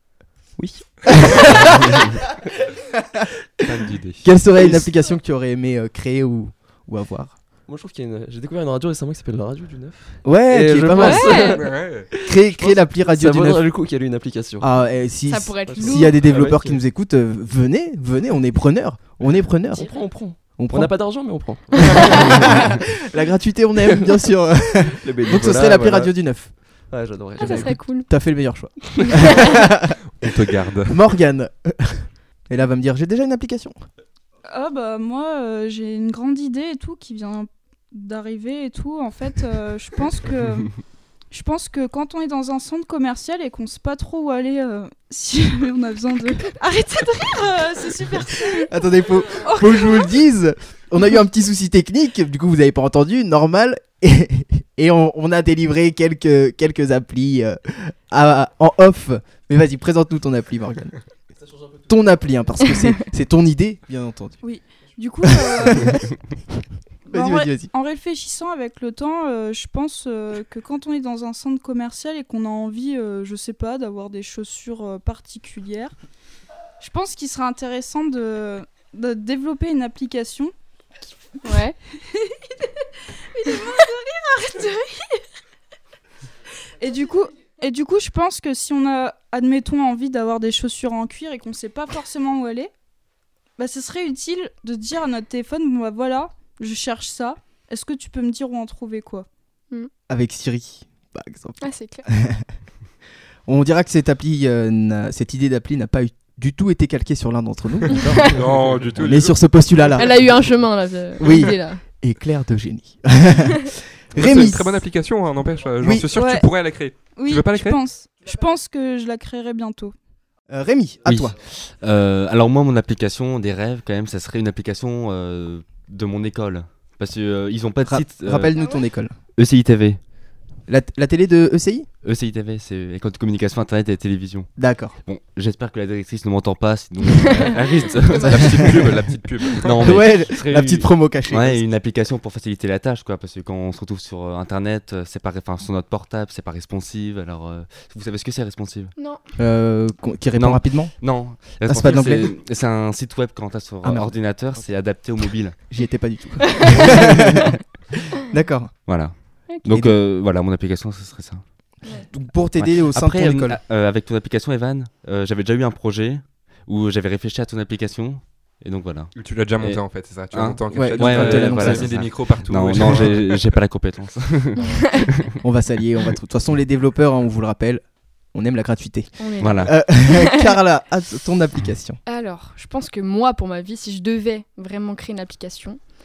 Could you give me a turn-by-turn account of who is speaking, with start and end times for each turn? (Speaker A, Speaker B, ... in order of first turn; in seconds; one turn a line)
Speaker A: 0.6-1.5
Speaker B: 1.0-2.0
Speaker C: 3.6-4.3
Speaker B: 4.2-7.4
Speaker A: 7.7-14.7
Speaker B: 10.2-11.5
Speaker D: 11.0-11.6
Speaker C: 11.3-12.1
Speaker B: 12.2-13.7
Speaker B: 14.6-26.5
Speaker D: 15.3-16.3
Speaker A: 15.7-16.8
Speaker A: 19.7-22.8
Speaker D: 22.0-22.3
Speaker A: 24.8-26.1
Speaker A: 26.9-27.8
Speaker B: 27.4-30.3
Speaker D: 27.4-28.1
Speaker D: 29.0-29.4
Speaker C: 30.1-31.0
Speaker B: 30.8-33.8
Speaker E: 34.5-48.7
Speaker B: 48.6-61.0
Speaker E: 49.3-50.1
Speaker B: 61.9-64.4
Speaker E: 64.4-66.1
Speaker B: 65.2-66.1
Speaker B: 67.1-67.7
Speaker E: 67.1-75.9
Speaker E: 76.8-80.5
Speaker D: 81.4-81.8
Speaker E: 82.1-85.2
Speaker E: 86.8-92.7
Speaker E: 93.6-99.3
Speaker B: 100.1-102.5
Speaker D: 101.6-102.0
Speaker B: 103.5-108.3
Speaker D: 107.9-108.4
Speaker C: 108.2-110.3
Speaker B: 109.0-110.2
Speaker D: 109.9-111.8
Speaker B: 111.2-114.8
Speaker C: 114.1-117.8
Speaker B: 115.8-116.1
Speaker E: 116.1-116.5
Speaker E: 117.0-119.9
Speaker B: 120.5-121.3
Speaker F: 121.0-128.5
Speaker B: 127.8-129.2
Speaker F: 129.3-130.0
Speaker B: 130.7-131.9
Speaker F: 132.0-138.9
Speaker B: 134.6-135.0
Speaker C: 137.3-140.4
Speaker D: 138.1-138.4
Speaker B: 138.5-138.7
Speaker F: 139.5-148.9
Speaker B: 139.8-141.6
Speaker D: 148.9-149.2
Speaker B: 149.4-152.3
Speaker F: 150.3-155.6
Speaker B: 153.8-154.1
Speaker B: 155.6-157.6
Speaker D: 156.4-157.5
Speaker B: 158.1-158.7
Speaker F: 158.8-161.4
Speaker B: 159.6-159.9
Speaker B: 162.1-163.6
Speaker F: 162.6-169.8
Speaker C: 169.1-173.5
Speaker F: 170.3-175.3
Speaker B: 170.7-172.1
Speaker B: 172.7-173.1
Speaker B: 175.4-182.0
Speaker D: 179.2-180.5
Speaker F: 179.4-179.7
Speaker D: 182.1-185.8